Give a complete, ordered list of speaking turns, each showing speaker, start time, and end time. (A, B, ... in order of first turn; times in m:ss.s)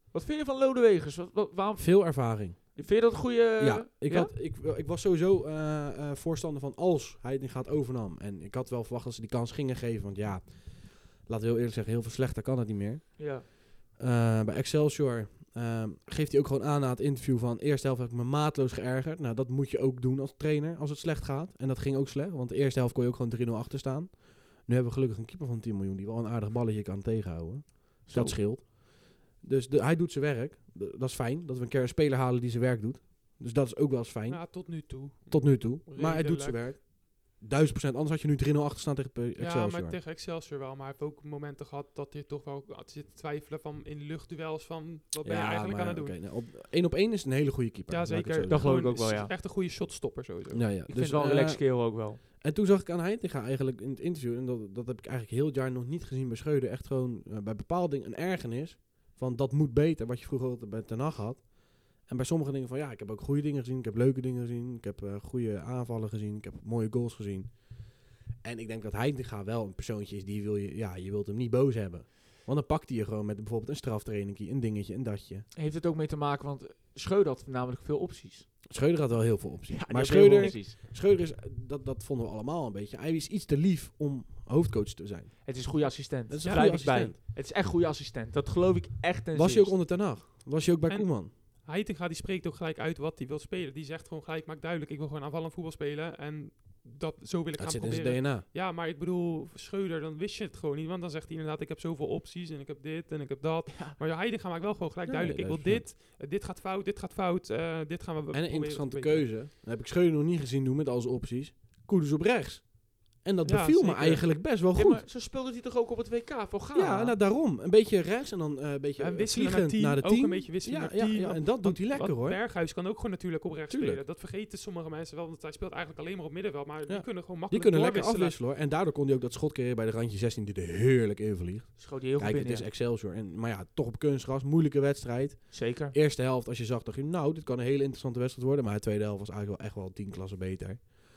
0:00.1-0:04.3 A
0:01.8-0:02.9 B
0:03.6-0:40.0 B
0:13.2-0:13.5 A
0:28.0-0:28.4 A
0:34.3-0:36.6 C
0:39.4-0:46.2 C
0:45.2-0:49.0 B
0:47.9-0:50.8 C
0:48.5-0:49.3 A
0:50.5-1:15.5 B
0:50.9-0:52.2 A
1:15.5-1:18.6 A
1:18.7-1:25.6 B
1:19.7-1:20.8 A
1:20.1-1:20.6 C
1:25.4-1:29.8 A
1:26.3-1:27.2 B
1:26.4-1:26.8 C
1:29.3-1:31.3 B
1:30.9-1:49.3 C
1:37.6-1:38.5 B
1:45.0-1:45.9 B
1:48.3-1:55.0 B
1:53.4-1:54.3 C
1:54.8-1:57.2 A
1:56.8-2:02.4 B
1:59.0-2:08.4 C
2:03.7-2:04.0 B
2:06.9-2:21.0 B
2:11.8-2:12.7 A
2:15.5-2:16.0 A